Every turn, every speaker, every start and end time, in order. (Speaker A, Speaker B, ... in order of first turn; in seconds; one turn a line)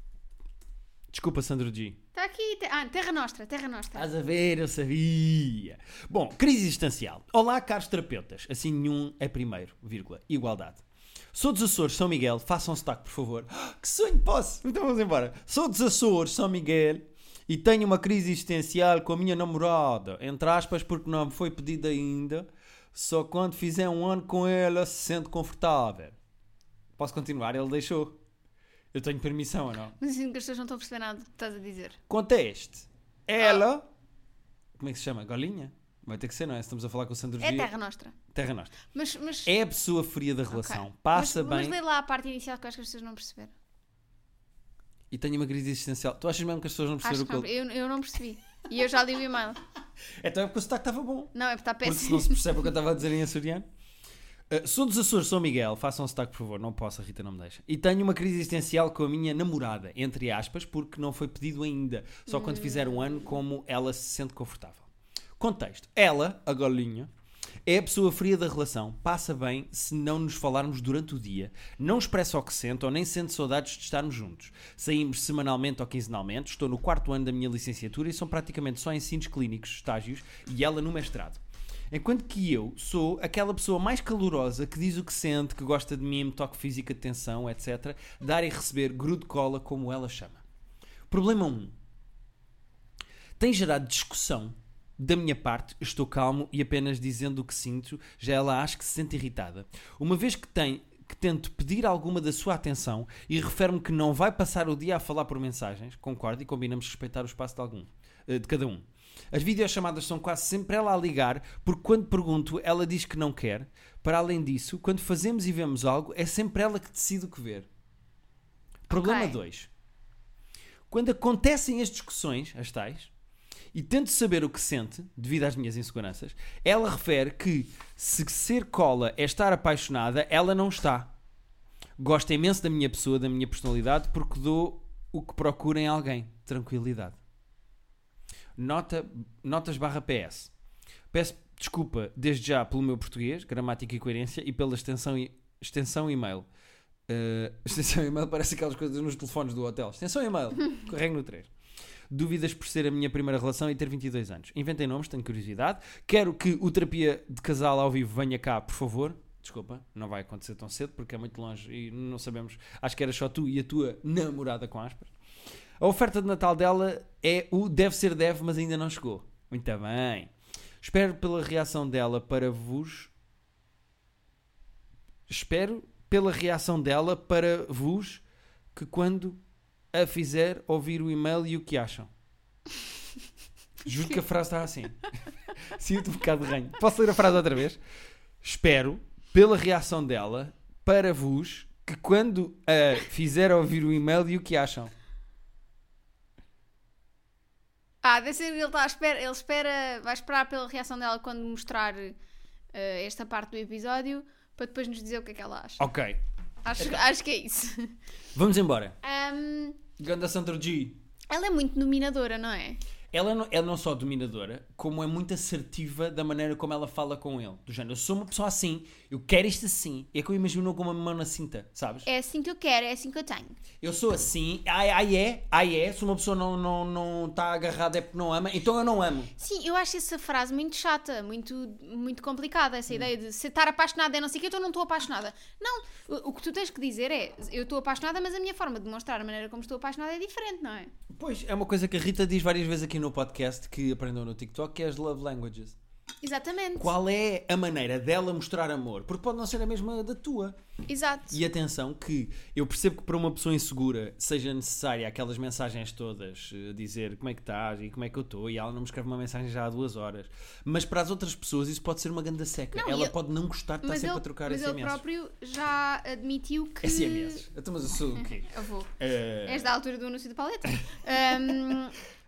Speaker A: 1.1-2.0
Speaker B: 2.1-4.1
Speaker A: 3.9-26.2
Speaker A: 27.0-28.2
Speaker A: 28.9-29.9
Speaker B: 30.0-32.0
Speaker A: 32.1-33.9
Speaker A: 34.8-37.7
Speaker B: 37.4-38.1
Speaker A: 38.3-38.7
Speaker B: 38.9-39.5
Speaker A: 39.4-41.8
Speaker B: 40.5-43.5
Speaker A: 45.1-47.5
Speaker B: 47.0-49.6
Speaker A: 50.2-53.7
Speaker B: 51.3-52.5
Speaker A: 54.5-67.1
Speaker B: 62.3-63.3
Speaker A: 67.7-90.4
Speaker A: 91.1-91.7
Speaker A: 93.4-117.7
Speaker A: 118.9-119.7
Speaker B: 118.9-119.4
Speaker A: 120.9-123.1
Speaker A: 123.7-131.1
Speaker A: 132.0-137.2
Speaker A: 138.6-140.5
Speaker A: 141.1-146.5
Speaker A: 147.1-151.5
Speaker A: 152.1-165.1
Speaker A: 165.8-173.1
Speaker A: 175.3-178.2
Speaker A: 178.7-179.4
Speaker A: 179.9-182.1
Speaker A: 183.8-187.8
Speaker A: 188.4-194.9
Speaker B: 198.0-202.2
Speaker B: 202.7-205.9
Speaker A: 205.8-206.2
Speaker B: 206.6-207.9
Speaker A: 206.8-207.0
Speaker A: 208.3-208.9
Speaker B: 209.0-209.8
Speaker A: 210.0-211.0
Speaker B: 211.3-212.8
Speaker A: 213.1-222.1
Speaker B: 222.0-223.6
Speaker A: 223.8-229.3
Speaker B: 229.3-240.9
Speaker A: 241.1-245.8
Speaker B: 246.2-246.9
Speaker A: 246.8-250.6
Speaker B: 250.9-251.4
Speaker A: 251.3-265.0
Speaker B: 262.7-263.1
Speaker B: 263.8-267.4
Speaker A: 266.8-269.7
Speaker B: 268.2-272.0